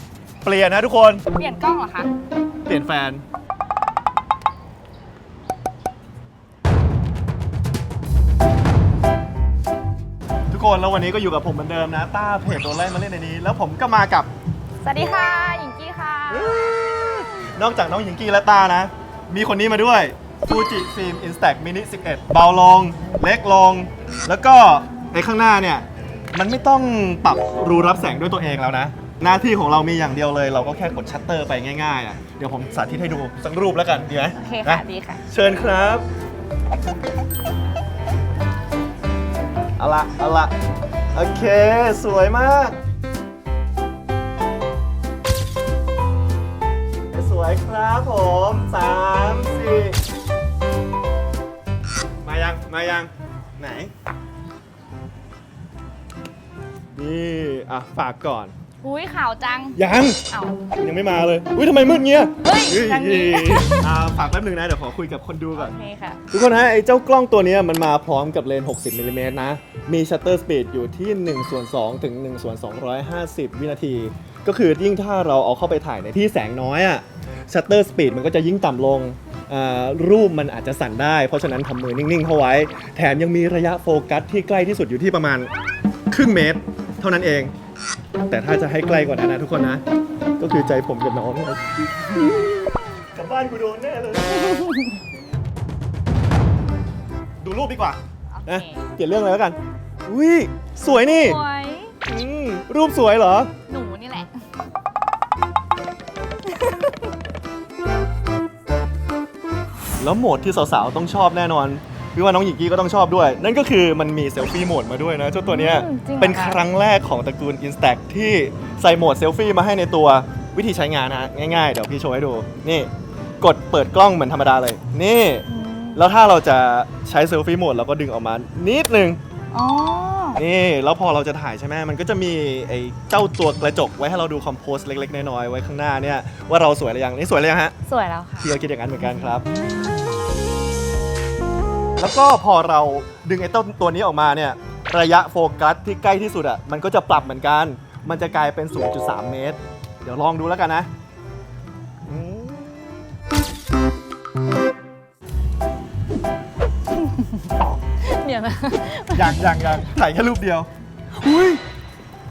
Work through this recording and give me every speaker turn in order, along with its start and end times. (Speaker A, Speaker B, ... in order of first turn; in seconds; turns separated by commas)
Speaker A: 0.4-1.2, Speaker B: 1.4-2.1, Speaker A: 2.6-3.2, Speaker A: 10.5-14.3, Speaker B: 14.8-16.8, Speaker A: 16.3-36.0, Speaker B: 34.4-35.2, Speaker A: 39.8-40.5, Speaker A: 41.1-42.8, Speaker A: 47.1-50.0, Speaker A: 52.2-53.9, Speaker A: 56.9-58.5, Speaker B: 58.8-59.8, Speaker A: 59.7-60.2, Speaker B: 60.3-60.6, Speaker A: 60.7-65.7, Speaker B: 62.4-63.9, Speaker B: 65.5-66.2, Speaker A: 66.3-85.5, Speaker A: 86.1-87.5, Speaker A: 88.3-89.8, Speaker A: 90.4-94.7, Speaker B: 94.6-94.9, Speaker A: 97.4-101.4, Speaker B: 98.3-98.8, Speaker B: 101.0-101.9, Speaker A: 102.0-103.5, Speaker B: 103.7-104.3, Speaker B: 106.5-107.0, Speaker A: 110.0-129.2, Speaker B: 115.4-116.6, Speaker B: 125.5-126.0, Speaker B: 129.5-130.4, Speaker A: 130.3-137.7, Speaker B: 137.8-138.5, Speaker A: 138.4-139.4, Speaker A: 142.0-150.9, Speaker A: 152.1-152.8, Speaker B: 157.0-157.4, Speaker B: 158.0-159.8, Speaker A: 159.1-161.6